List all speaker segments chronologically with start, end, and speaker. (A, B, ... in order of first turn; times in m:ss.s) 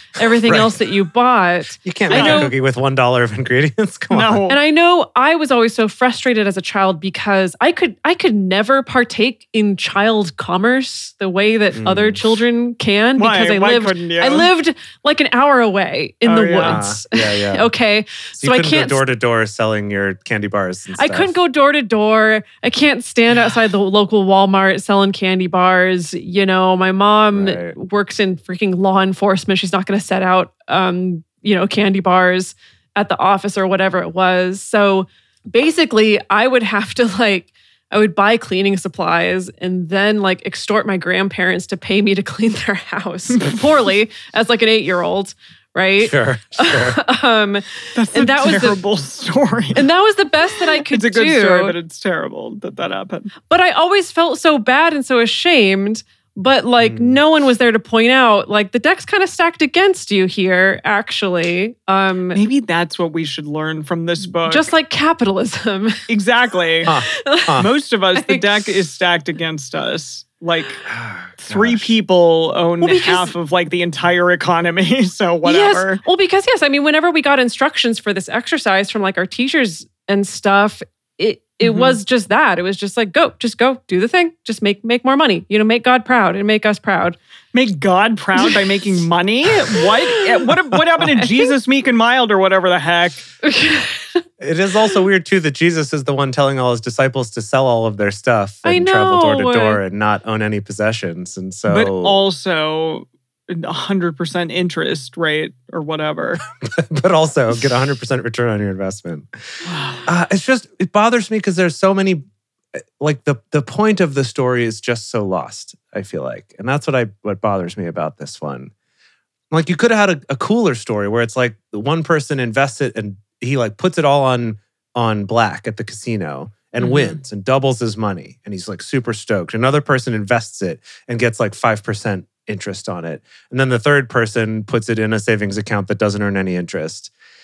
0:00.2-0:02.5 A
0:00.4-0:00.8 B
0:01.8-0:04.5 B
0:02.1-0:02.5 C
0:04.1-0:04.6 C
0:04.5-0:19.0 A
0:11.7-0:12.2 B
0:13.2-0:14.5 C
0:16.2-0:16.8 C
0:16.6-0:17.7 B
0:18.4-0:21.4 B
0:21.0-0:48.8 A
0:27.3-0:27.8 B
0:46.0-0:47.0 B
0:48.0-0:49.9 C
0:49.8-0:51.8 A
0:50.7-0:53.3 C
0:53.5-1:02.4 A
0:56.8-0:57.2 B
1:02.3-1:04.7 C
1:04.5-1:06.0 A
1:06.1-1:06.9 C
1:06.8-1:07.6 A
1:06.9-1:07.7 B
1:07.6-1:10.9 C
1:08.1-1:08.6 A
1:10.9-1:11.9 B
1:11.4-1:16.0 C
1:12.8-1:13.3 A
1:15.4-1:27.2 A
1:21.6-1:22.0 C
1:27.5-1:33.2 C
1:29.8-1:30.2 A
1:31.0-1:31.5 A
1:33.4-1:34.2 A
1:34.4-1:42.2 B
1:38.6-1:39.8 A
1:41.7-1:46.4 C
1:46.6-1:58.7 B
1:49.6-1:50.0 C
1:59.5-2:17.1 B
2:06.8-2:07.2 C